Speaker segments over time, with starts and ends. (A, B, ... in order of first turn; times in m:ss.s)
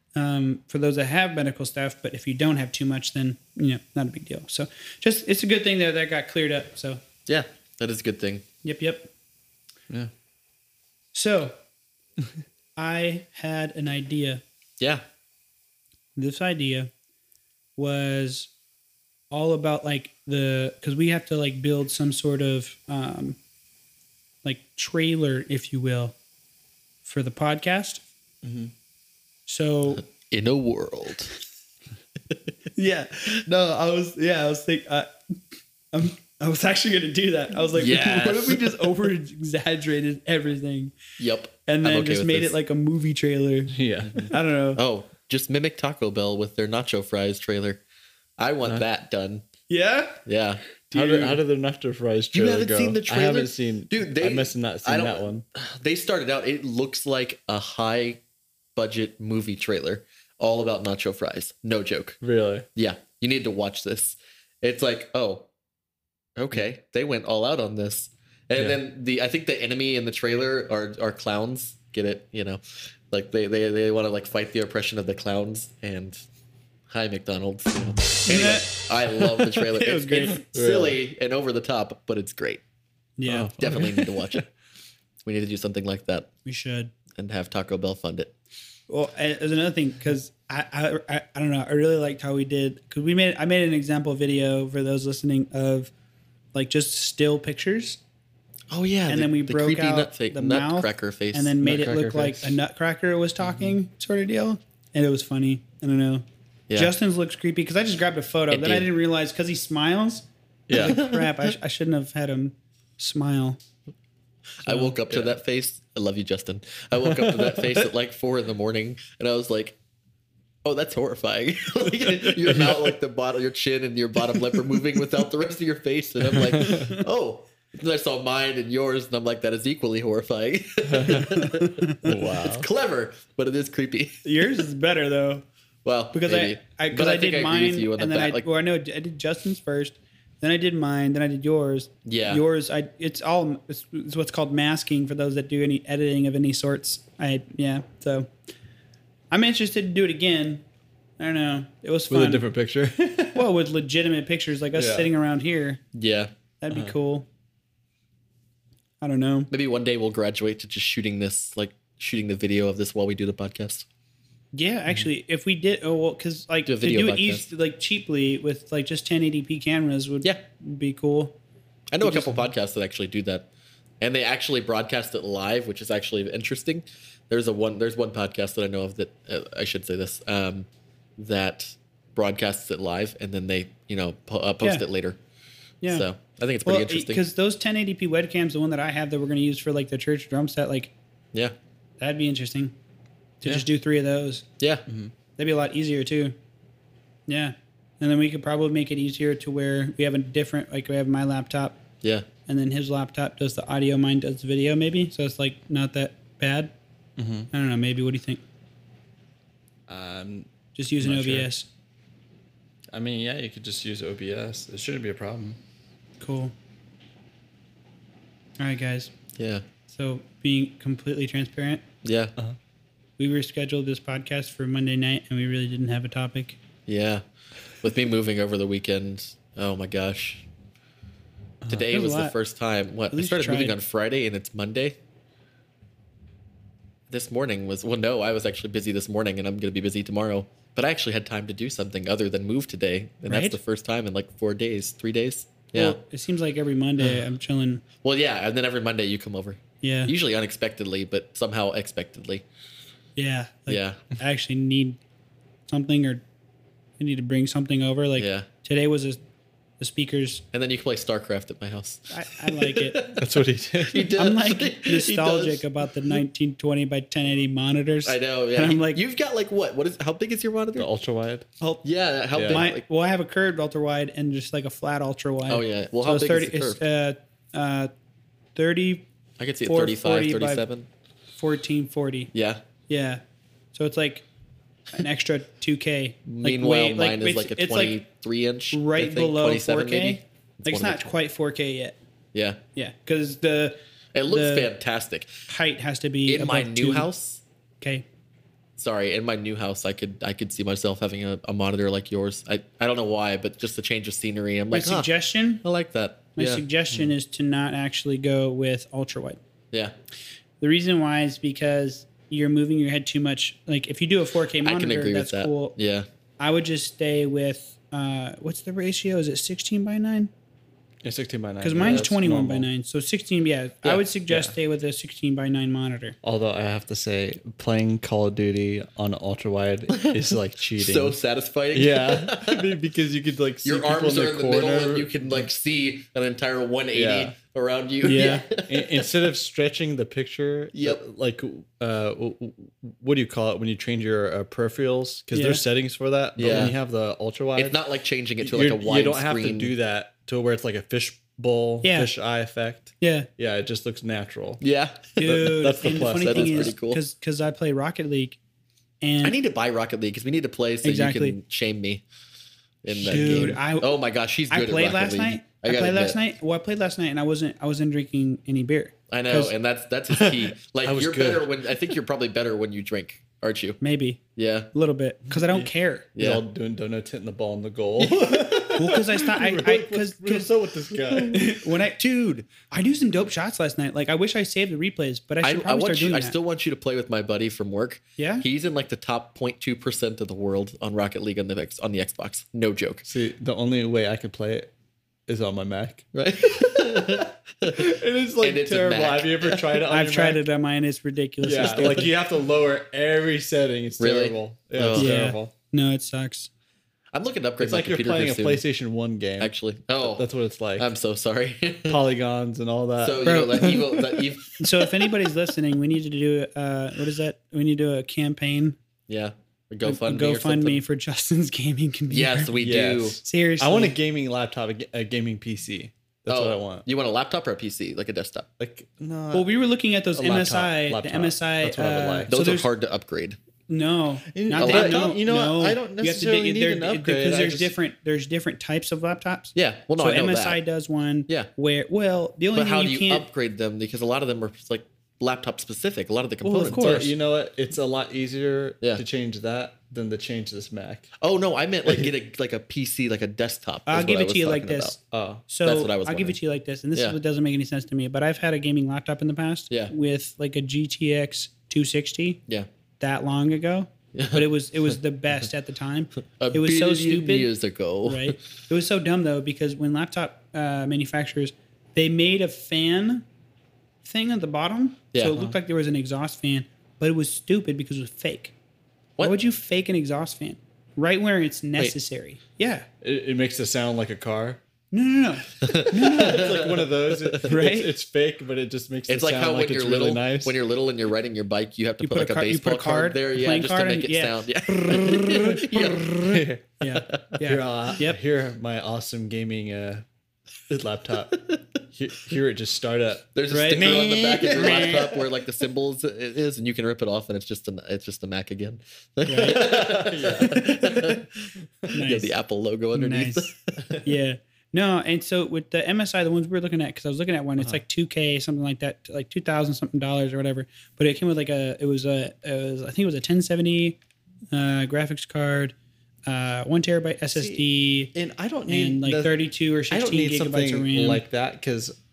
0:00.1-0:07.0 A
0:07.3-0:08.4 B
0:08.6-0:09.1 A
0:11.1-0:11.6 A
0:12.8-0:14.4 A
0:16.2-0:16.9 A
0:17.8-0:18.5 A
0:19.3-0:23.4 A
0:24.4-0:26.2 A
0:27.0-0:28.0 A
0:28.4-0:28.7 C
0:29.5-0:30.0 A
0:30.0-0:31.3 B
0:32.7-0:35.1 A
0:35.9-0:40.9 A
0:37.7-0:38.8 B
0:41.2-0:42.6 B
0:41.6-0:44.8 A
0:43.7-0:44.3 C
0:44.8-0:47.8 B
0:48.4-0:49.4 B
0:49.7-0:50.2 A
0:50.2-0:50.6 B
0:50.9-0:51.4 A
0:50.9-0:55.4 C
0:52.3-0:58.2 B
0:58.8-1:02.2 B
1:02.2-1:02.6 C
1:02.7-1:05.5 B
1:06.4-1:16.2 B
1:16.9-1:22.6 B
1:18.2-1:20.4 A
1:20.4-1:21.0 C
1:23.2-1:23.5 A
1:23.2-1:24.4 C
1:23.6-1:24.4 B
1:25.2-1:26.3 B
1:26.4-1:26.9 A
1:27.2-1:28.3 B
1:28.9-1:35.9 A
1:36.5-1:38.0 A
1:38.7-1:41.5 B
1:39.1-1:53.6 A
1:41.6-1:42.5 C
1:43.4-1:43.7 C
1:48.5-1:48.9 B
1:50.7-1:51.0 C
1:50.8-1:51.3 B
1:54.6-1:59.8 B
1:57.1-1:57.7 C
2:00.6-2:14.2 B
2:02.5-2:02.8 C
2:06.3-2:06.9 C
2:10.9-2:11.3 C
2:11.3-2:12.0 A
2:12.0-2:12.7 C
2:14.2-2:15.4 A
2:15.8-2:18.5 B
2:16.1-2:28.3 A
2:22.0-2:22.4 B
2:29.3-2:30.6 A
2:31.2-2:32.4 A
2:32.1-2:33.5 C
2:33.3-2:35.8 A
2:34.7-2:35.1 C
2:35.9-2:36.3 B
2:36.6-2:37.3 A
2:39.0-2:39.5 A
2:39.5-2:43.8 B
2:44.5-2:51.4 A
2:46.6-2:47.4 B
2:51.9-2:53.5 B
2:52.0-2:52.5 A
2:54.0-3:05.2 B
3:05.9-3:07.2 B
3:06.6-3:10.9 A
3:12.0-3:12.7 A
3:13.4-3:14.5 A
3:14.6-3:14.8 B
3:15.4-3:16.4 A
3:17.3-3:21.8 A
3:22.0-3:22.3 B
3:22.4-3:26.7 A
3:27.2-3:27.5 C
3:27.5-3:28.4 A
3:29.9-3:30.5 C
3:30.7-3:31.7 A
3:31.0-3:31.5 C
3:32.9-3:35.6 C
3:36.2-3:36.5 A
3:38.6-3:39.1 A
3:39.3-3:39.6 B
3:39.9-3:41.8 A
3:42.0-3:42.3 B
3:43.2-3:46.6 A
3:46.9-3:47.2 B
3:47.8-3:50.5 B
3:51.7-3:55.0 B
3:51.9-3:52.4 A
3:53.1-3:53.8 A
3:57.1-4:06.0 B
4:03.3-4:03.6 A
4:05.7-4:07.8 A
4:08.0-4:12.4 B
4:09.8-4:10.1 A
4:13.2-4:15.0 A
4:13.7-4:14.0 B
4:15.7-4:16.2 A
4:17.0-4:19.2 A
4:18.2-4:18.5 B
4:19.8-4:20.4 A
4:20.5-4:23.3 B
4:22.1-4:23.1 A
4:23.1-4:24.1 C
4:23.9-4:25.6 B
4:24.2-4:29.0 A
4:28.0-4:30.9 B
4:30.8-4:31.5 C
4:31.8-4:32.8 B
4:32.3-4:32.6 C
4:32.5-4:37.9 A
4:35.5-4:36.8 B
4:38.5-4:39.0 A
4:39.4-4:40.9 B
4:39.6-4:40.6 A
4:41.4-4:42.3 A
4:42.3-4:42.6 B
4:42.9-4:43.2 A
4:43.7-4:44.2 A
4:44.9-4:48.0 A
4:46.3-4:51.1 B
4:48.7-4:52.0 A
4:52.3-4:52.6 B
4:52.8-4:54.7 A
4:54.1-4:55.3 B
4:55.5-4:57.1 A
4:56.2-4:57.4 B
4:58.8-5:05.1 B
5:04.7-5:05.6 A
5:05.6-5:06.6 B
5:06.4-5:09.4 A
5:10.6-5:15.8 A
5:14.6-5:16.1 B
5:16.4-5:20.3 A
5:21.0-5:22.7 C
5:21.6-5:26.1 A
5:23.8-5:24.5 C
5:26.2-5:31.2 C
5:30.8-5:32.7 B
5:31.7-5:35.5 C
5:33.6-5:39.1 B
5:36.9-5:37.3 C
5:38.0-5:47.8 C
5:38.0-5:38.4 A
5:40.7-5:41.0 B
5:45.3-5:45.6 A
5:46.4-5:46.8 B
5:47.6-5:49.7 B
5:48.4-5:54.6 C
5:51.8-5:52.1 A
5:53.0-5:53.3 A
5:54.6-5:55.4 B
5:55.2-5:58.4 A
5:55.2-5:56.7 C
5:56.1-5:57.0 B
5:59.0-5:59.4 A
5:59.2-6:02.0 B
6:00.8-6:01.4 A
6:02.8-6:06.2 B
6:03.0-6:03.9 A
6:03.1-6:03.6 C
6:04.5-6:09.5 A
6:09.1-6:13.8 B
6:10.1-6:11.7 C
6:13.8-6:14.2 A
6:14.4-6:14.7 B
6:14.7-6:16.1 A
6:15.3-6:21.6 C
6:16.2-6:16.4 B
6:18.0-6:18.5 B
6:18.7-6:20.5 A
6:21.1-6:22.0 A
6:22.0-6:22.5 B
6:22.7-6:26.4 A
6:25.4-6:33.0 B
6:28.2-6:28.4 A
6:33.0-6:34.7 C
6:35.3-6:36.1 C
6:36.1-6:39.7 B
6:36.9-6:40.4 C
6:39.9-6:42.1 A
6:41.4-6:45.5 C
6:41.6-6:42.0 B
6:44.0-6:45.1 B
6:44.9-6:46.5 A
6:47.1-6:48.6 B
6:47.6-6:50.9 C
6:49.4-6:50.2 B
6:50.8-6:52.0 B
6:51.8-6:53.4 C
6:53.0-6:54.9 B
6:53.2-6:54.1 A
6:54.6-6:58.8 A
6:59.1-7:00.8 B
6:59.8-7:02.5 A
7:02.1-7:03.2 B
7:02.6-7:06.8 C
7:03.2-7:03.9 A
7:06.3-7:08.5 B
7:08.6-7:09.5 C
7:09.3-7:12.7 A
7:10.1-7:12.3 C
7:12.3-7:13.4 B
7:13.7-7:23.3 A
7:14.3-7:17.7 C
7:14.6-7:15.2 B
7:19.5-7:20.6 B
7:22.5-7:27.1 B
7:26.4-7:27.1 A
7:26.7-7:31.1 C
7:31.2-7:35.0 B
7:33.9-7:35.0 A
7:35.1-7:35.4 C
7:35.5-7:42.4 A
7:35.6-7:36.4 B
7:43.0-7:47.5 A
7:44.1-7:44.9 B
7:46.4-7:48.4 B
7:48.0-7:53.2 A
7:54.0-7:58.5 A
7:59.2-8:02.9 A
8:03.0-8:04.6 C
8:04.9-8:06.5 A
8:05.6-8:07.4 B
8:05.9-8:10.6 C
8:07.4-8:07.9 A
8:09.1-8:16.4 B
8:12.0-8:15.0 A
8:14.9-8:16.7 C
8:16.8-8:18.2 A
8:17.1-8:17.4 B
8:17.4-8:20.0 C
8:20.7-8:25.2 C
8:23.3-8:31.5 B
8:23.5-8:24.0 A
8:24.5-8:25.0 A
8:29.3-8:29.6 A
8:29.3-8:31.2 C
8:31.9-8:32.3 A
8:32.0-8:33.8 B
8:32.9-8:44.0 A
8:44.5-8:45.7 A
8:46.2-8:48.1 A
8:47.3-8:49.4 C
8:48.7-8:51.2 A
8:49.9-8:52.0 C